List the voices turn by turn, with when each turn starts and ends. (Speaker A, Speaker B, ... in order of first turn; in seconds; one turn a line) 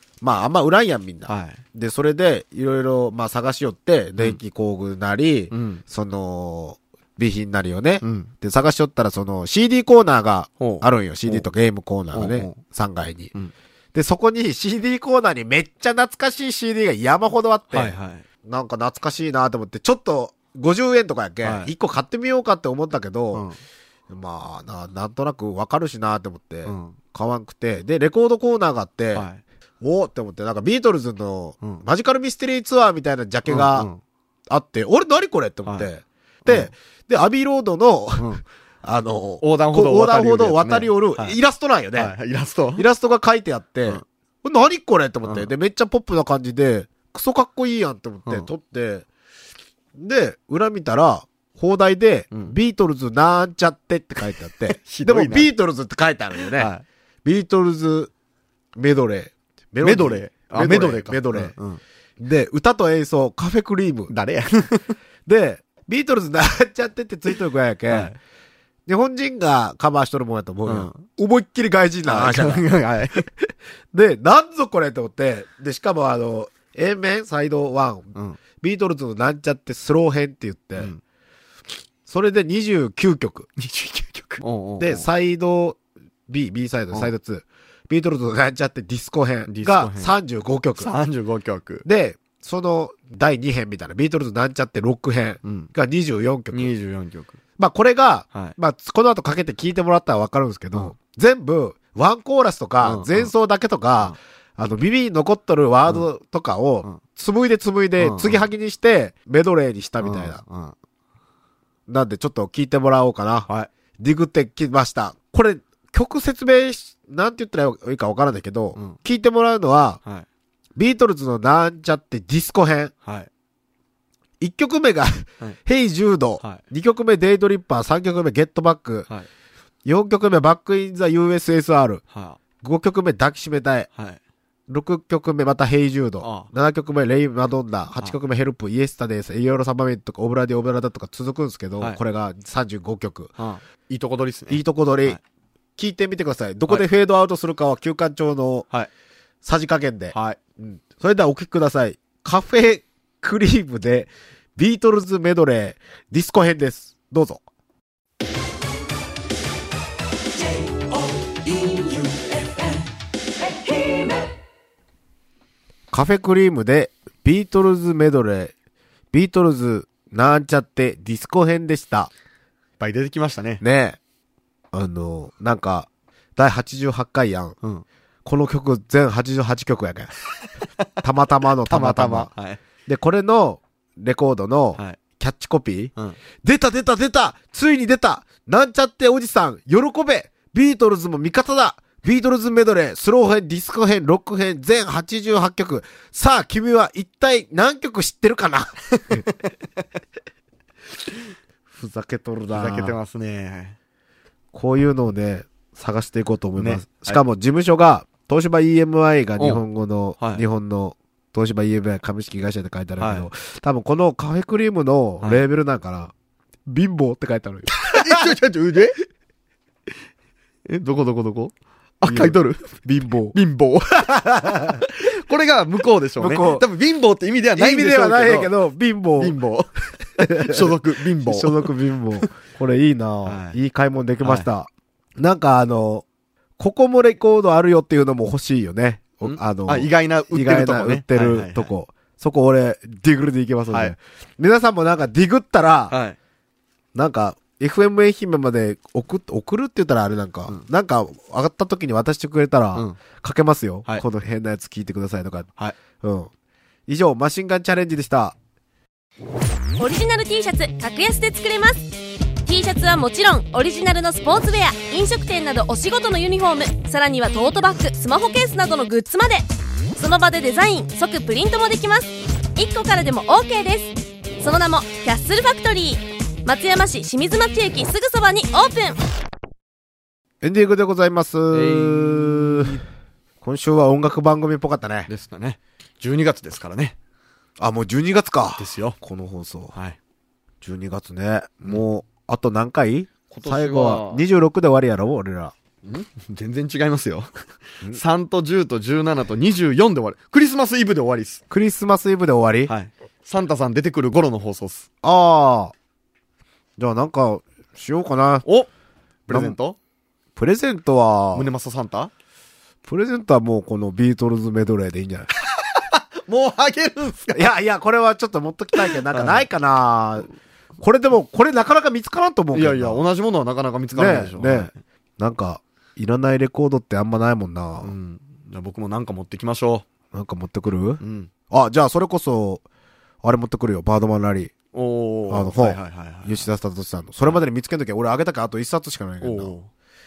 Speaker A: 0.2-13.3
Speaker B: 1.3-1.6
Speaker B: 5.5-5.8
Speaker B: 8.0-8.3
Speaker B: 10.6-11.4
Speaker B: 12.1-12.6
Speaker A: 13.9-23.5
Speaker B: 17.7-18.2
Speaker B: 21.4-21.7
Speaker B: 23.3-23.6
Speaker A: 24.1-29.3
Speaker B: 26.6-26.9
Speaker B: 29.1-29.4
Speaker A: 29.8-33.9
Speaker B: 33.5-34.0
Speaker A: 34.5-42.1
Speaker B: 36.5-36.7
Speaker B: 38.2-38.4
Speaker B: 39.4-41.4
Speaker B: 42.0-42.8
Speaker A: 42.8-49.0
Speaker B: 45.2-45.5
Speaker A: 49.9-56.7
Speaker B: 54.6-55.5
Speaker B: 56.5-56.8
Speaker A: 57.2-58.1
Speaker A: 58.8-61.5
Speaker B: 59.8-61.8
Speaker A: 62.2-64.1
Speaker B: 64.1-65.0
Speaker A: 65.2-68.2
Speaker B: 67.9-68.2
Speaker A: 68.8-72.7
Speaker B: 70.7-71.0
Speaker B: 72.0-73.3
Speaker A: 73.4-80.9
Speaker B: 78.1-78.4
Speaker A: 82.0-83.5
Speaker B: 83.6-85.0
Speaker A: 84.8-90.9
Speaker B: 89.5-90.1
Speaker B: 90.8-91.8
Speaker A: 91.8-96.7
Speaker B: 95.4-95.7
Speaker B: 96.5-97.4
Speaker A: 97.6-110.4
Speaker B: 102.8-103.3
Speaker B: 108.0-108.5
Speaker B: 110.0-110.7
Speaker A: 111.9-120.0
Speaker A: 120.8-122.9
Speaker B: 123.0-123.3
Speaker A: 124.4-129.1
Speaker A: 129.8-132.0
Speaker B: 132.1-132.4
Speaker A: 132.6-133.9
Speaker B: 133.9-134.2
Speaker A: 134.7-143.3
Speaker B: 136.2-136.5
Speaker B: 143.4-145.2
Speaker A: 144.5-145.2
Speaker A: 145.8-148.7
Speaker A: 149.4-157.4
Speaker B: 150.1-150.4
Speaker C: 161.3-162.8
Speaker C: 163.4-164.3
Speaker A: 165.9-168.5
Speaker A: 169.1-172.1
Speaker B: 172.8-173.6
Speaker A: 173.6-174.0
Speaker A: 174.7-177.6
Speaker A: 178.2-180.1
Speaker A: 181.0-182.3
Speaker B: 181.7-182.6
Speaker A: 182.9-185.9
Speaker A: 186.4-199.2
Speaker B: 198.9-199.3
Speaker A: 201.7-203.0
Speaker B: 202.5-203.8
Speaker A: 204.5-216.1
Speaker B: 206.6-207.2
Speaker B: 209.4-209.6
Speaker B: 210.2-210.4
Speaker B: 213.0-213.3
Speaker A: 216.7-218.3
Speaker B: 217.8-219.0
Speaker B: 220.7-224.0
Speaker A: 222.0-223.3
Speaker A: 223.9-224.9
Speaker B: 224.8-228.5
Speaker A: 226.2-226.7
Speaker A: 227.6-229.4
Speaker B: 229.2-231.7
Speaker A: 230.2-236.0
Speaker B: 233.2-233.6
Speaker B: 234.2-234.5
Speaker A: 236.6-245.9
Speaker B: 239.2-241.7
Speaker B: 245.9-246.2
Speaker A: 246.9-256.3
Speaker A: 256.9-258.4
Speaker D: 259.8-261.9
Speaker D: 262.4-279.0
Speaker A: 280.4-282.8
Speaker B: 281.5-282.8
Speaker A: 283.4-285.1
Speaker B: 285.1-286.9
Speaker A: 287.6-289.7
Speaker B: 288.6-289.0
Speaker B: 289.7-290.0
Speaker A: 290.6-295.5
Speaker B: 293.3-294.2
Speaker B: 295.8-297.3
Speaker B: 297.8-301.4
Speaker A: 301.5-302.7
Speaker B: 302.7-304.9
Speaker A: 305.0-305.7
Speaker A: 306.8-308.4
Speaker B: 309.3-309.8
Speaker A: 309.3-309.6
Speaker A: 310.4-311.5
Speaker B: 311.3-312.1
Speaker A: 312.8-315.3
Speaker B: 315.5-317.5
Speaker A: 317.3-320.3
Speaker B: 318.8-319.5
Speaker A: 320.8-323.0
Speaker B: 322.5-324.8
Speaker A: 323.9-327.9
Speaker B: 327.8-329.8
Speaker A: 330.1-332.6
Speaker B: 331.0-331.3
Speaker A: 333.2-334.5
Speaker B: 334.7-336.5
Speaker A: 335.3-339.5
Speaker B: 339.2-339.7